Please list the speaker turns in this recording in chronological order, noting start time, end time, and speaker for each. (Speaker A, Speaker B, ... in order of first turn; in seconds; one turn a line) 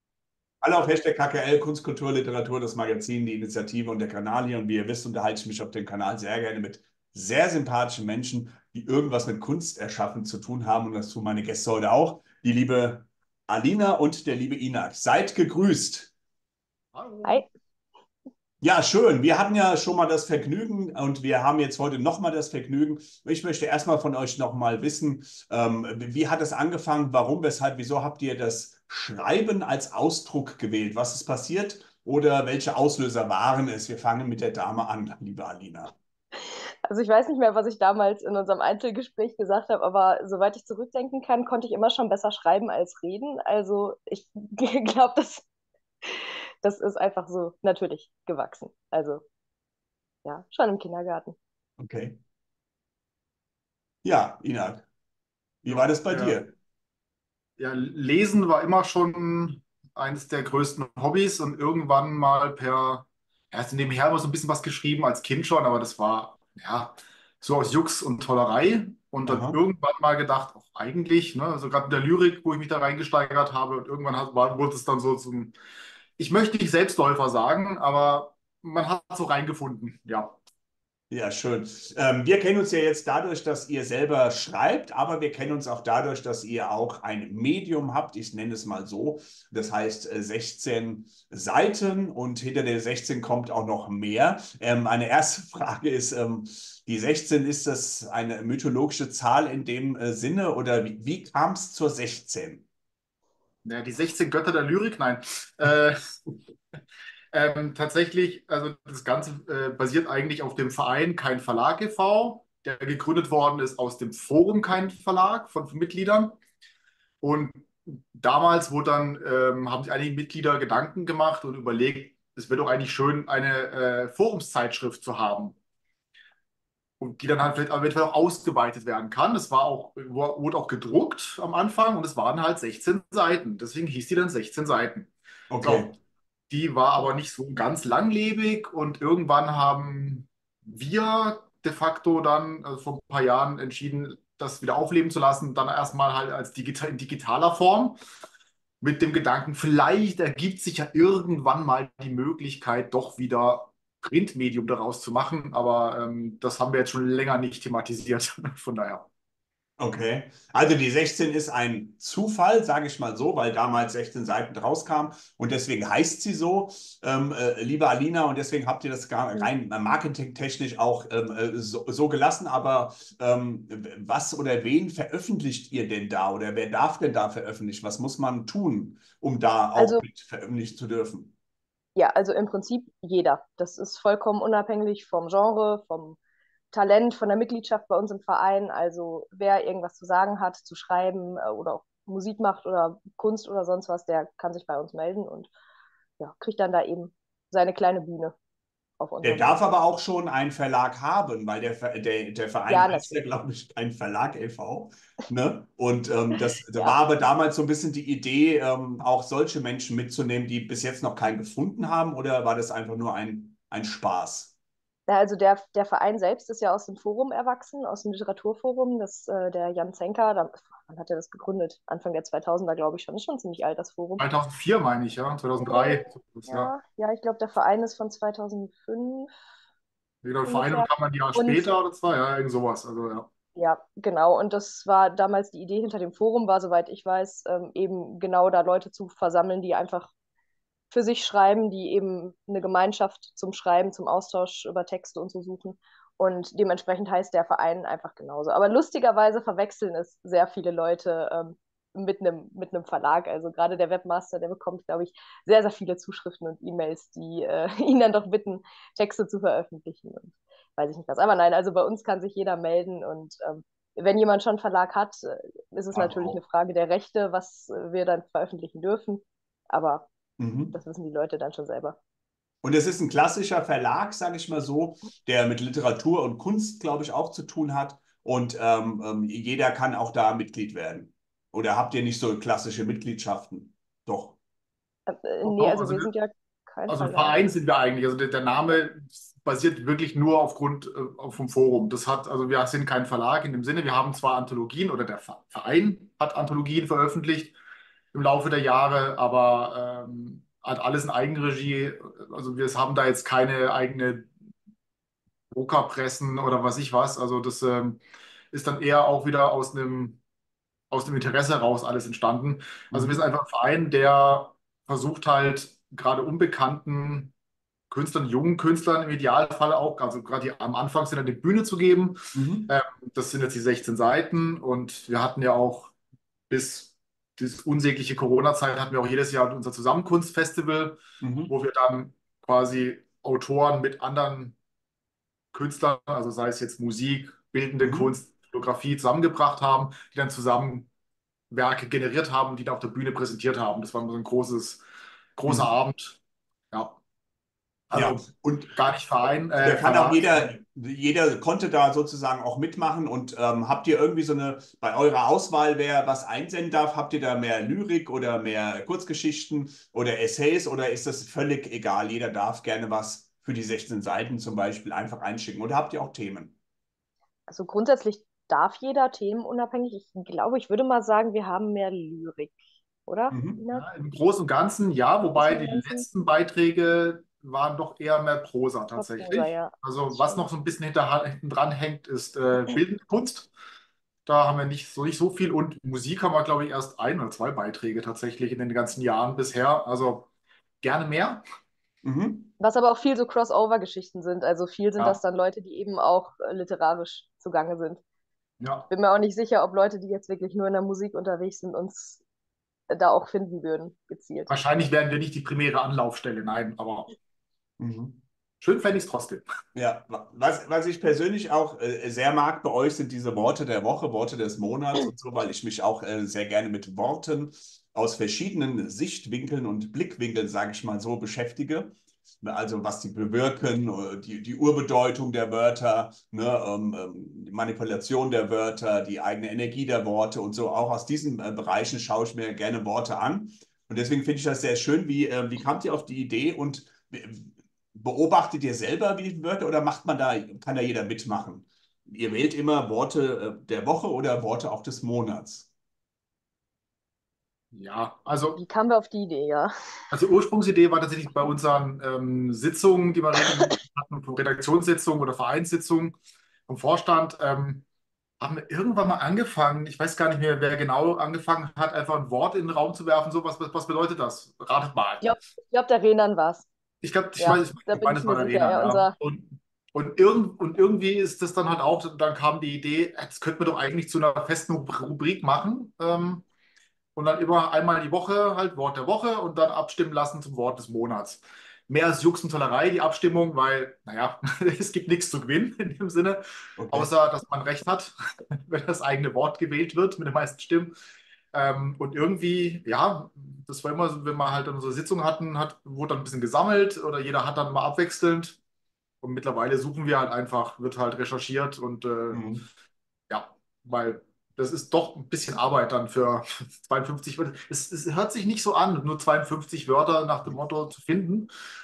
Speaker A: 0.6-16.1
Speaker B: 16.9-17.5
Speaker A: 18.6-35.9
Speaker C: 36.9-45.5
Speaker C: 46.0-49.2
Speaker C: 50.2-51.4
Speaker A: 51.8-52.2
Speaker A: 54.0-54.9
Speaker A: 55.6-56.5
Speaker B: 55.7-56.4
Speaker B: 57.6-75.5
Speaker A: 69.3-69.6
Speaker B: 76.2-80.4
Speaker A: 81.1-102.7
Speaker B: 103.6-106.4
Speaker B: 107.3-116.4
Speaker B: 117.2-125.6
Speaker B: 127.0-135.1
Speaker A: 135.5-135.9
Speaker B: 135.6-136.0
Speaker B: 136.5-148.0
Speaker B: 148.8-159.1
Speaker A: 159.8-181.3
Speaker C: 179.8-180.0
Speaker C: 182.0-186.2
Speaker C: 186.7-195.5
Speaker C: 196.2-198.3
Speaker C: 199.0-199.5
Speaker A: 199.2-214.5
Speaker C: 202.7-203.2
Speaker C: 215.1-224.2
Speaker B: 224.2-226.7
Speaker C: 225.6-229.3
Speaker B: 230.2-233.3
Speaker C: 230.5-231.8
Speaker C: 233.6-240.1
Speaker C: 240.9-270.1
Speaker A: 265.9-266.4
Speaker A: 270.4-270.8
Speaker C: 270.7-272.0
Speaker A: 272.6-284.4
Speaker C: 285.1-287.4
Speaker B: 285.4-286.1
Speaker B: 286.9-297.6
Speaker B: 298.1-304.3
Speaker B: 305.5-310.2
Speaker B: 310.9-317.3
Speaker A: 312.9-313.2
Speaker B: 317.9-325.9
Speaker A: 322.3-322.7
Speaker B: 326.5-334.6
Speaker A: 331.2-331.5
Speaker B: 335.5-340.9
Speaker A: 337.8-338.1
Speaker B: 341.5-344.8
Speaker B: 345.4-346.2
Speaker B: 347.9-350.5
Speaker A: 347.9-348.7
Speaker A: 349.6-366.6
Speaker C: 367.5-373.9
Speaker A: 373.3-373.6
Speaker B: 373.7-383.5
Speaker C: 375.4-376.1
Speaker C: 379.0-380.5
Speaker B: 384.3-390.3
Speaker B: 390.8-391.4
Speaker A: 392.0-392.5
Speaker C: 392.6-398.0
Speaker B: 398.6-398.9
Speaker C: 398.9-402.2
Speaker C: 402.9-404.6
Speaker B: 404.5-407.1
Speaker A: 407.8-408.2
Speaker B: 408.6-409.4
Speaker A: 409.7-445.7
Speaker B: 447.7-448.6
Speaker C: 448.6-450.0
Speaker B: 450.1-456.2
Speaker B: 456.7-457.9
Speaker B: 458.4-465.3
Speaker C: 465.2-466.7
Speaker B: 467.0-476.5
Speaker C: 467.4-469.1
Speaker B: 477.1-490.9
Speaker A: 486.8-487.1
Speaker B: 491.5-498.6
Speaker B: 499.2-502.5
Speaker A: 502.3-502.7
Speaker B: 503.3-511.5